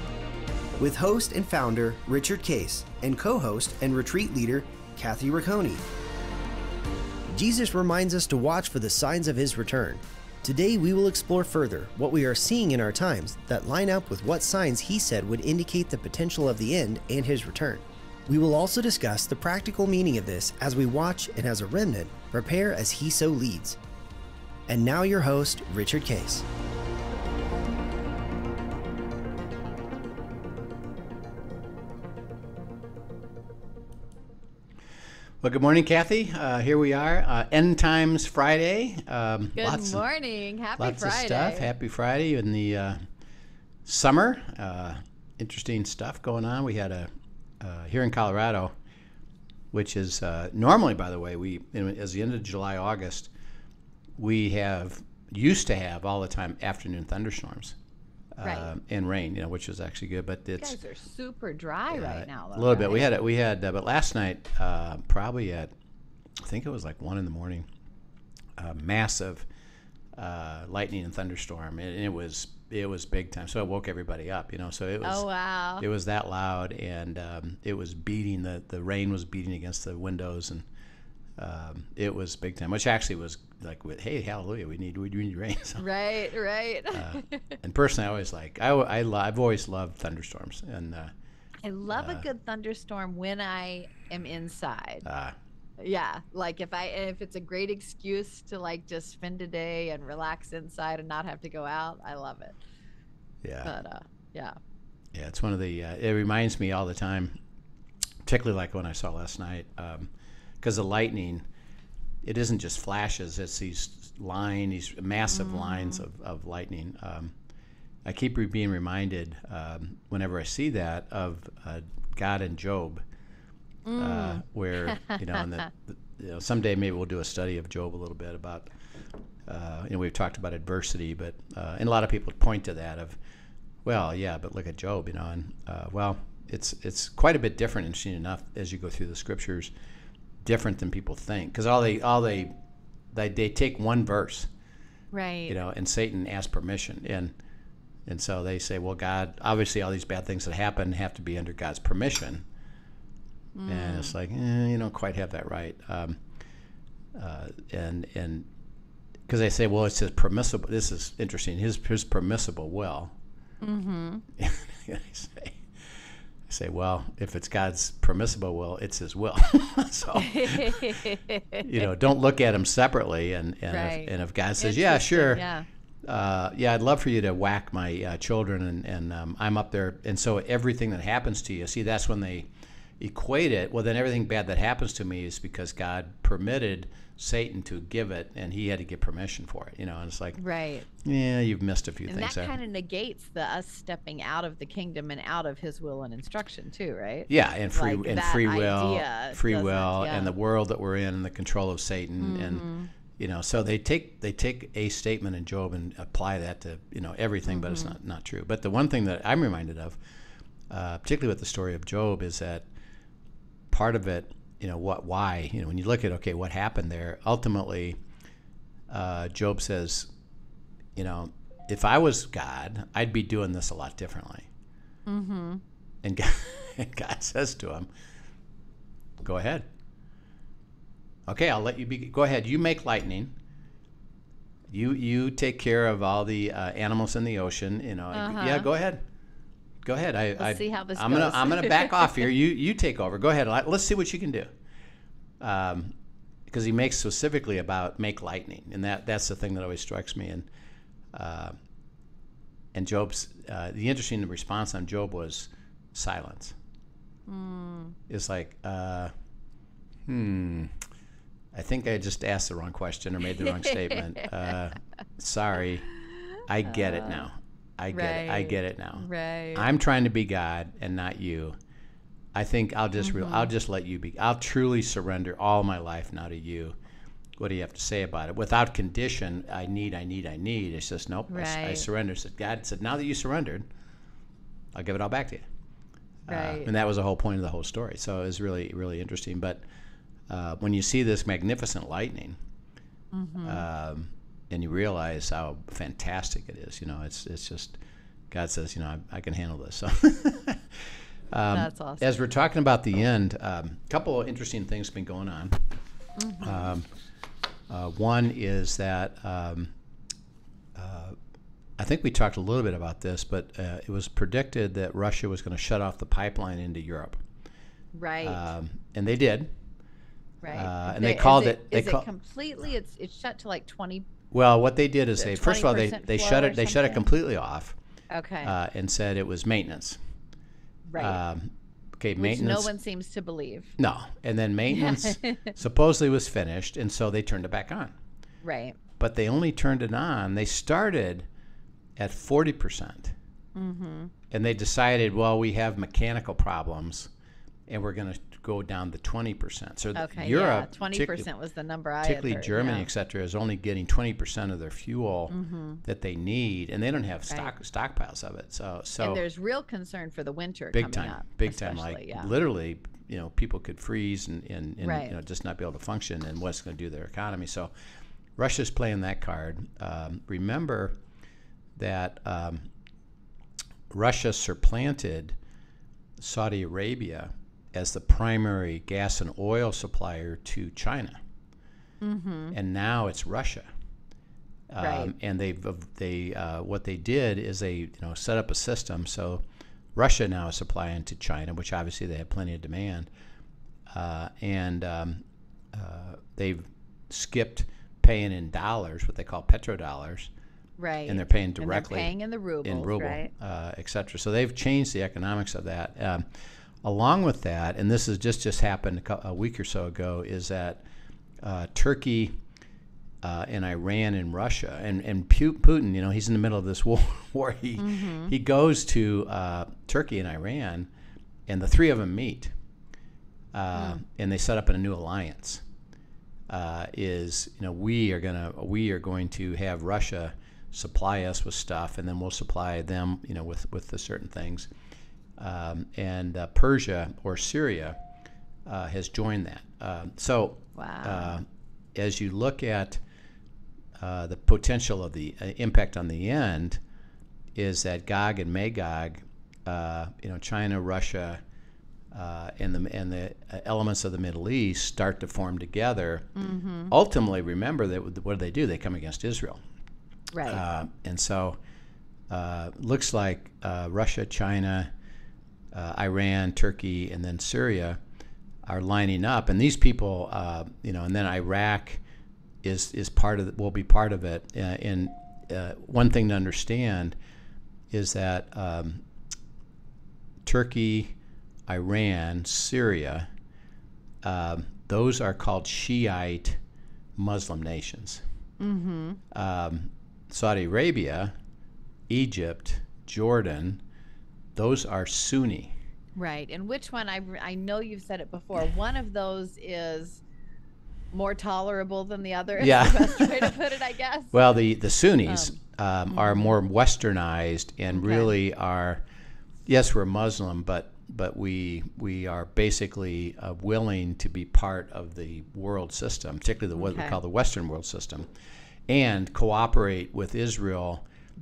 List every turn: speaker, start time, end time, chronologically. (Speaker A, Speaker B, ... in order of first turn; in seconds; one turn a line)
Speaker A: 0.8-5.8
Speaker A: 7.3-23.8
Speaker A: 24.7-26.4
Speaker B: 35.4-40.0
Speaker C: 39.5-41.7
Speaker B: 40.8-43.0
Speaker B: 43.9-47.1
Speaker B: 47.6-48.7
Speaker B: 49.7-53.3
Speaker B: 54.2-57.7
Speaker B: 58.4-60.8
Speaker C: 58.4-58.7
Speaker C: 60.6-63.1
Speaker B: 61.9-65.7
Speaker B: 66.4-67.7
Speaker B: 68.6-69.4
Speaker B: 70.2-75.2
Speaker C: 75.0-75.8
Speaker B: 75.8-80.6
Speaker B: 81.4-85.8
Speaker C: 85.8-87.5
Speaker B: 86.9-91.1
Speaker C: 91.6-95.0
Speaker B: 91.9-92.2
Speaker B: 95.0-95.3
Speaker C: 95.8-102.6
Speaker B: 103.4-103.7
Speaker C: 103.6-104.6
Speaker B: 105.1-107.3
Speaker B: 108.2-110.1
Speaker B: 110.6-111.4
Speaker B: 112.2-117.3
Speaker C: 115.3-116.0
Speaker B: 118.0-123.0
Speaker C: 123.8-125.6
Speaker B: 124.0-128.7
Speaker B: 129.5-133.2
Speaker B: 133.8-139.7
Speaker B: 140.4-142.5
Speaker B: 143.1-144.5
Speaker C: 145.1-145.5
Speaker B: 145.5-147.3
Speaker B: 148.1-152.4
Speaker C: 153.5-154.1
Speaker B: 153.7-156.2
Speaker B: 157.1-158.5
Speaker B: 159.3-163.1
Speaker C: 163.6-164.2
Speaker B: 164.4-165.6
Speaker B: 166.5-171.0
Speaker C: 170.1-171.8
Speaker B: 171.6-175.4
Speaker C: 173.7-175.7
Speaker B: 176.0-182.5
Speaker B: 183.0-190.4
Speaker C: 190.3-190.9
Speaker B: 191.0-192.5
Speaker C: 192.1-200.3
Speaker B: 197.3-202.7
Speaker C: 202.2-202.9
Speaker B: 203.2-210.0
Speaker C: 207.5-207.9
Speaker B: 210.7-212.7
Speaker B: 213.7-218.0
Speaker B: 218.9-220.1
Speaker B: 220.9-224.5
Speaker C: 225.1-225.6
Speaker B: 226.0-227.9
Speaker B: 229.2-229.6
Speaker B: 231.3-233.3
Speaker B: 234.7-239.0
Speaker C: 238.1-238.7
Speaker B: 239.8-244.5
Speaker C: 240.4-242.3
Speaker B: 245.4-245.9
Speaker B: 246.5-250.5
Speaker B: 251.1-251.5
Speaker B: 252.7-256.5
Speaker C: 257.3-257.9
Speaker B: 258.1-259.1
Speaker B: 260.1-260.8
Speaker B: 261.5-265.9
Speaker C: 263.4-264.5
Speaker C: 265.9-267.3
Speaker B: 266.4-271.6
Speaker C: 267.9-269.6
Speaker B: 272.3-276.8
Speaker C: 273.0-273.5
Speaker B: 277.4-283.6
Speaker C: 281.3-281.9
Speaker B: 284.7-285.4
Speaker B: 286.3-289.6
Speaker C: 286.3-286.7
Speaker B: 290.3-292.4
Speaker C: 293.1-293.6
Speaker B: 293.4-297.8
Speaker B: 298.3-300.8
Speaker B: 301.3-305.6
Speaker C: 301.5-302.1
Speaker C: 306.2-306.7
Speaker B: 306.4-306.9
Speaker B: 307.7-309.7
Speaker B: 310.7-311.1
Speaker B: 311.8-317.2
Speaker C: 317.9-318.4
Speaker B: 318.2-319.5
Speaker C: 320.4-324.1
Speaker B: 320.5-322.1
Speaker B: 324.3-327.8
Speaker C: 325.2-327.0
Speaker C: 328.1-328.5
Speaker B: 328.4-330.0
Speaker C: 330.9-331.2
Speaker B: 330.9-332.7
Speaker C: 332.2-333.7
Speaker B: 333.8-337.9
Speaker C: 334.7-335.5
Speaker C: 338.4-338.8
Speaker B: 339.0-341.2
Speaker B: 341.9-343.1
Speaker C: 343.5-344.1
Speaker B: 344.3-347.1
Speaker B: 347.7-351.2
Speaker C: 349.9-352.9
Speaker B: 352.0-359.2
Speaker C: 355.3-355.8
Speaker C: 359.0-362.3
Speaker B: 360.7-367.7
Speaker C: 364.8-365.1
Speaker B: 368.4-370.9
Speaker B: 371.8-372.6
Speaker B: 373.9-375.3
Speaker B: 376.2-381.2
Speaker C: 382.0-382.5
Speaker B: 382.5-383.7
Speaker B: 384.7-389.4
Speaker C: 384.8-385.1
Speaker B: 389.9-393.1
Speaker B: 393.9-400.3
Speaker C: 400.8-403.3
Speaker B: 401.1-406.2
Speaker B: 406.8-410.8
Speaker B: 411.4-412.3
Speaker B: 413.2-420.9
Speaker C: 417.8-418.3
Speaker B: 421.5-422.5
Speaker B: 423.5-425.6
Speaker C: 423.7-424.0
Speaker B: 426.5-434.7
Speaker B: 435.4-438.0
Speaker B: 438.6-441.4
Speaker C: 440.8-441.4
Speaker B: 441.9-443.0
Speaker B: 444.0-446.8
Speaker B: 447.5-451.4
Speaker B: 452.1-456.3
Speaker C: 456.4-456.9
Speaker B: 456.9-459.6
Speaker C: 460.3-460.6
Speaker B: 460.5-461.6
Speaker B: 462.3-464.9
Speaker B: 465.7-468.0
Speaker B: 468.6-472.0
Speaker B: 472.6-477.1
Speaker B: 477.9-479.0
Speaker B: 480.4-481.1
Speaker B: 481.7-483.3
Speaker B: 484.2-486.6
Speaker B: 487.2-488.2
Speaker C: 488.6-489.2
Speaker B: 489.3-491.3
Speaker B: 492.1-493.8
Speaker B: 494.5-495.7
Speaker C: 496.1-500.2
Speaker C: 501.1-504.4
Speaker B: 502.6-503.5
Speaker B: 504.3-509.0
Speaker C: 505.2-505.6
Speaker C: 506.1-506.5
Speaker C: 507.9-508.3
Speaker B: 509.7-518.3
Speaker C: 516.7-517.2
Speaker B: 518.9-521.0